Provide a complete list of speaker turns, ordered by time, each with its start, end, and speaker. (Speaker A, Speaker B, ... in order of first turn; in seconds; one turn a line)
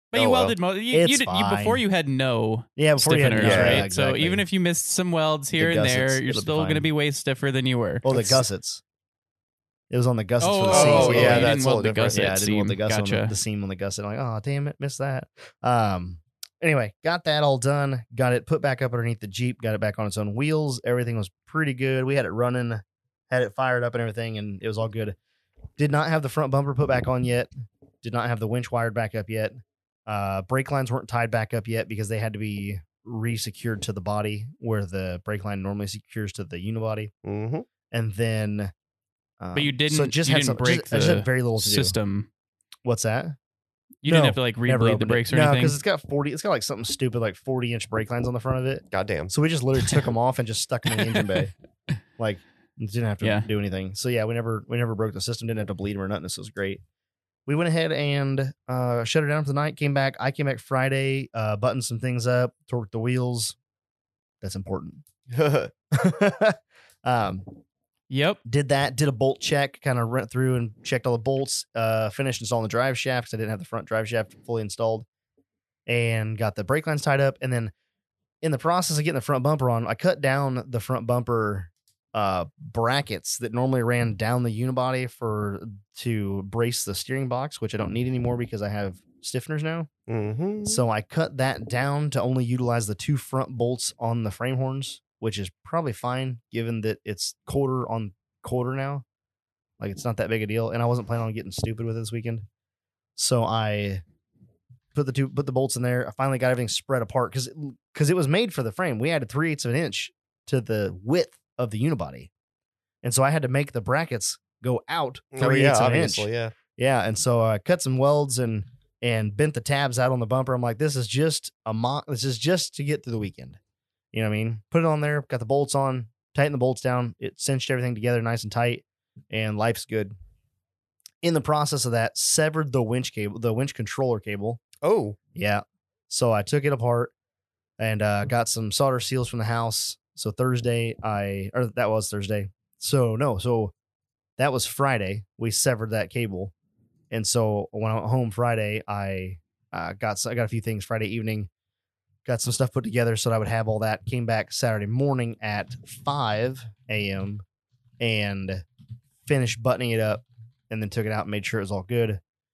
Speaker A: 0.1-8.4
Speaker B: 0.1-0.5
Speaker C: 0.9-1.8
Speaker C: 2.8-4.4
Speaker B: 3.4-3.9
Speaker C: 5.6-6.9
Speaker C: 8.0-8.8
Speaker C: 9.9-11.6
Speaker A: 10.4-13.3
Speaker B: 10.7-12.2
Speaker C: 12.1-25.1
Speaker C: 25.8-27.5
Speaker C: 28.0-37.1
Speaker B: 37.2-37.7
Speaker C: 37.9-38.7
Speaker C: 39.4-41.9
Speaker A: 39.5-42.3
Speaker C: 42.8-43.3
Speaker A: 44.0-45.8
Speaker C: 44.0-51.5
Speaker B: 48.9-49.3
Speaker C: 52.2-56.8
Speaker A: 53.2-53.5
Speaker C: 57.5-63.5
Speaker C: 64.4-65.0
Speaker B: 65.3-65.7
Speaker C: 65.9-67.5
Speaker A: 68.1-68.4
Speaker C: 68.4-75.0
Speaker C: 75.9-77.7
Speaker C: 78.4-89.9
Speaker B: 90.1-90.8
Speaker C: 90.6-99.0
Speaker C: 99.8-102.4
Speaker C: 103.2-104.0
Speaker C: 104.9-112.3
Speaker C: 113.0-123.6
Speaker B: 115.3-116.5
Speaker C: 124.1-130.1
Speaker C: 131.2-134.6
Speaker B: 134.8-135.2
Speaker C: 135.3-137.1
Speaker C: 137.8-143.7
Speaker C: 144.4-146.5
Speaker C: 147.1-151.5
Speaker C: 152.2-157.4
Speaker C: 158.0-158.6
Speaker C: 159.2-162.2